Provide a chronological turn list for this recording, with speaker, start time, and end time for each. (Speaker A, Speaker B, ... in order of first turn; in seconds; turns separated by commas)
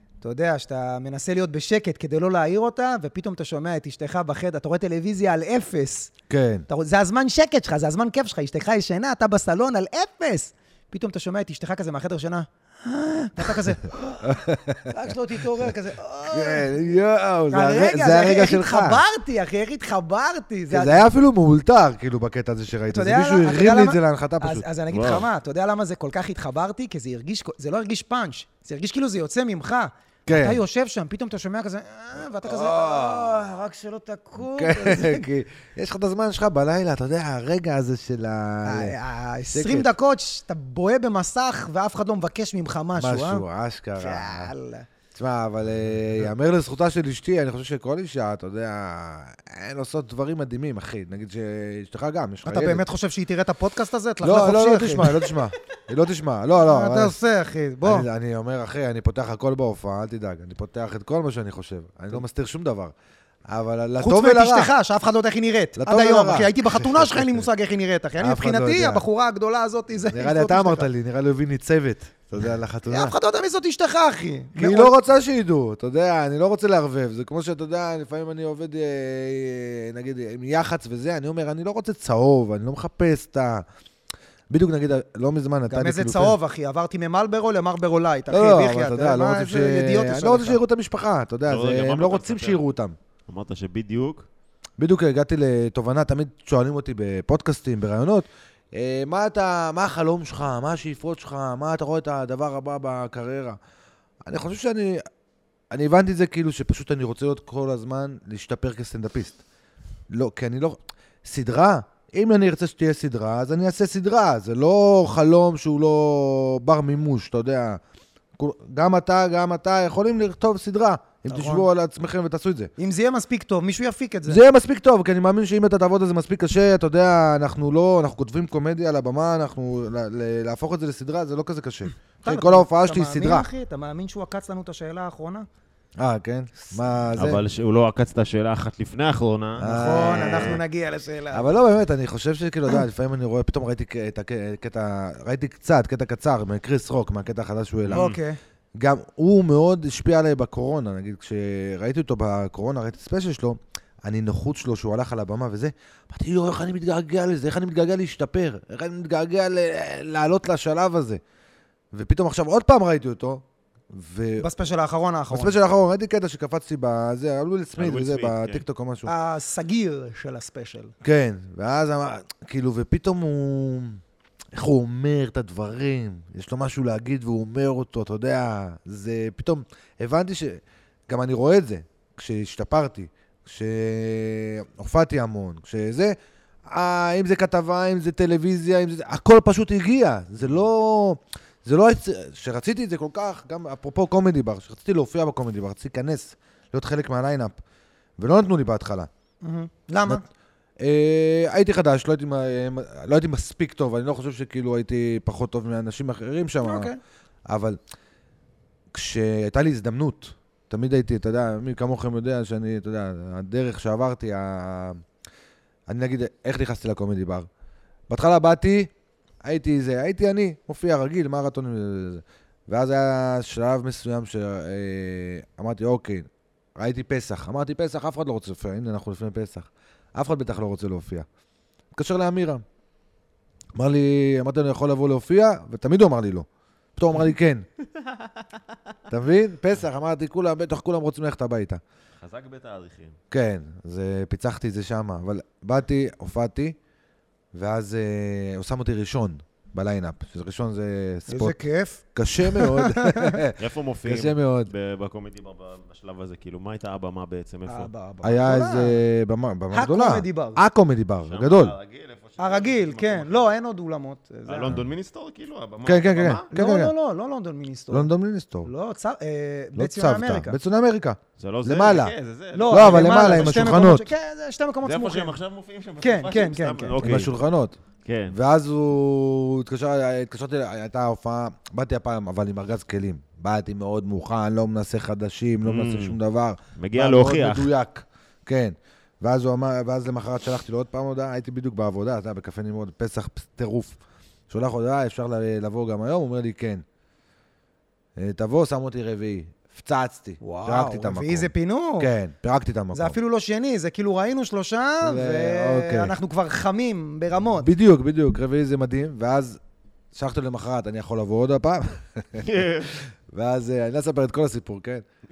Speaker A: 0.2-6.1, Speaker B: 6.3-6.7, Speaker A: 6.7-16.9, Speaker B: 14.2-15.7, Speaker B: 16.3-19.0, Speaker A: 17.5-21.1, Speaker B: 20.7-24.7, Speaker A: 22.9-35.3, Speaker C: 24.9-25.2, Speaker B: 30.3-30.6, Speaker B: 32.4-33.4, Speaker B: 34.4-39.0, Speaker A: 38.6-43.4, Speaker B: 39.5-39.9, Speaker B: 43.0-44.5, Speaker A: 44.0-44.9, Speaker B: 45.1-52.9, Speaker A: 52.5-55.3, Speaker B: 54.2-57.1, Speaker A: 56.6-58.1, Speaker B: 57.8-62.9, Speaker B: 63.5-64.7, Speaker A: 64.0-70.9, Speaker B: 65.8-67.5, Speaker B: 68.2-69.0, Speaker B: 70.1-73.2, Speaker A: 72.9-75.0, Speaker B: 74.5-83.7, Speaker B: 84.5-86.4, Speaker A: 85.7-90.6, Speaker B: 88.3-93.0, Speaker C: 91.5-92.6, Speaker C: 93.3-94.3, Speaker B: 94.8-103.6, Speaker B: 104.3-105.0, Speaker B: 105.7-109.4, Speaker B: 110.1-117.8, Speaker B: 118.4-122.7, Speaker A: 121.3-121.7, Speaker A: 122.8-124.4, Speaker B: 124.3-133.5, Speaker A: 132.2-135.5, Speaker B: 136.0-137.4, Speaker C: 137.2-140.6, Speaker B: 139.6-140.6, Speaker A: 139.7-141.6, Speaker B: 141.3-148.1, Speaker C: 147.9-148.2, Speaker A: 147.9-148.4, Speaker B: 148.8-161.2, Speaker B: 161.9-164.5, Speaker A: 164.4-165.6, Speaker B: 165.3-169.1, Speaker C: 167.8-168.6, Speaker A: 169.1-170.9, Speaker B: 171.0-174.0, Speaker B: 174.5-186.2, Speaker B: 186.7-197.6, Speaker B: 198.2-199.1, Speaker A: 199.4-200.2, Speaker B: 200.8-206.9, Speaker A: 206.6-207.0, Speaker B: 207.5-207.8, Speaker B: 208.9-215.0, Speaker B: 215.9-217.5, Speaker B: 218.1-218.9, Speaker B: 219.4-231.3, Speaker B: 231.9-232.6, Speaker B: 233.8-237.7, Speaker B: 239.1-241.8, Speaker C: 242.2-243.2, Speaker B: 243.3-246.8, Speaker B: 247.5-251.6, Speaker A: 251.3-253.4, Speaker B: 252.2-254.7, Speaker C: 253.6-257.9, Speaker A: 257.7-259.0, Speaker B: 258.2-261.8, Speaker A: 259.7-260.6, Speaker C: 261.3-263.5, Speaker A: 262.4-264.9, Speaker C: 264.5-266.5, Speaker B: 265.8-266.9, Speaker A: 266.5-268.1, Speaker B: 267.9-268.7, Speaker A: 268.6-270.6, Speaker B: 269.8-272.1, Speaker C: 271.4-273.7, Speaker A: 272.5-275.4, Speaker B: 272.7-274.1, Speaker C: 274.8-277.3, Speaker A: 276.0-277.2, Speaker B: 277.0-277.8, Speaker C: 278.1-278.4, Speaker B: 278.3-294.0, Speaker C: 285.6-286.2, Speaker C: 286.8-287.7, Speaker B: 294.5-296.8, Speaker B: 298.2-303.2, Speaker A: 300.4-302.1, Speaker A: 302.9-307.7, Speaker B: 305.0-306.2, Speaker B: 307.6-309.6, Speaker B: 310.1-315.1, Speaker C: 312.4-312.9